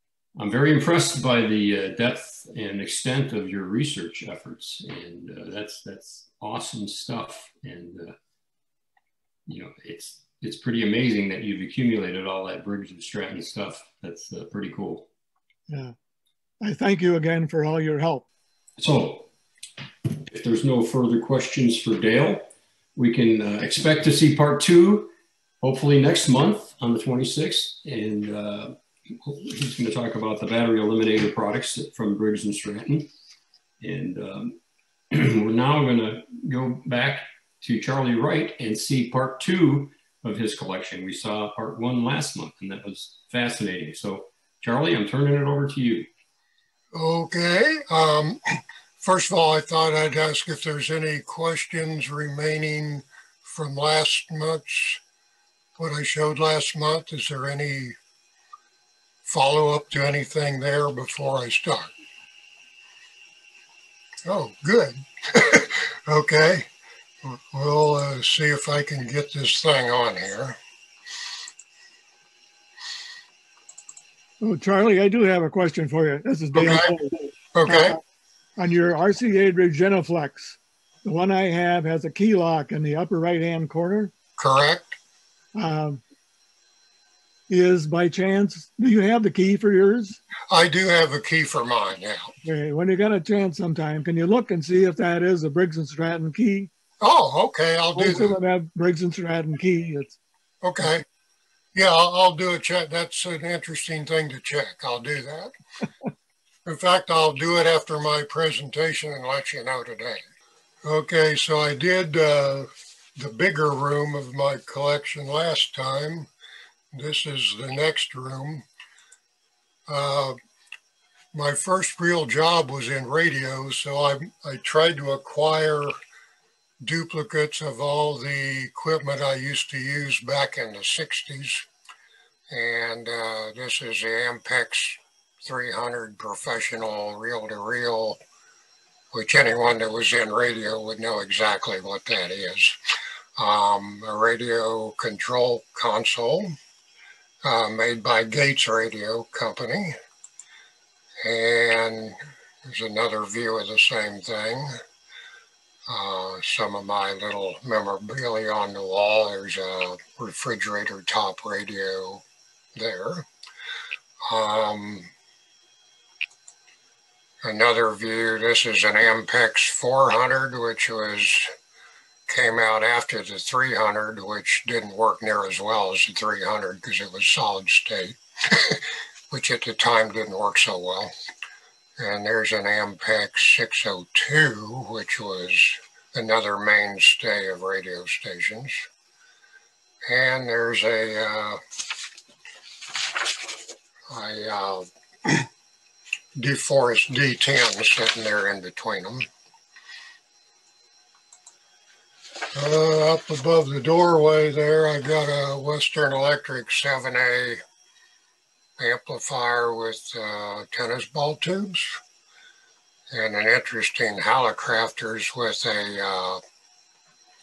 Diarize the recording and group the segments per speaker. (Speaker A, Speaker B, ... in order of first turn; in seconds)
Speaker A: 0.4-8.2, 9.5-15.1, 18.8-19.3, 20.3-33.1, 33.8-34.6, 35.1-46.1
Speaker B: 15.7-15.9, 16.6-18.2, 74.4-78.0, 78.6-84.1, 85.5-86.0, 87.5-90.2, 92.4-96.7, 98.0-100.2
Speaker C: 46.9-55.0, 55.8-58.0, 59.2-61.9, 64.3-66.7, 67.2-70.6, 76.5-76.9, 77.5-78.0, 84.4-85.0, 90.5-92.3, 97.0-98.4, 100.6-101.0, 101.8-105.5, 106.7-110.2, 110.8-116.3, 116.9-118.6, 119.9-120.4, 121.3-125.9, 126.8-131.7, 132.5-138.2, 139.1-142.8, 143.4-146.6, 147.4-149.9, 151.2-154.7, 155.9-162.2, 162.8-163.3, 164.3-165.1, 167.4-171.5, 172.3-181.1, 182.0-188.9, 190.1-191.6, 194.1-195.5, 196.4-199.2, 202.5-207.6, 208.8-212.0, 213.1-216.4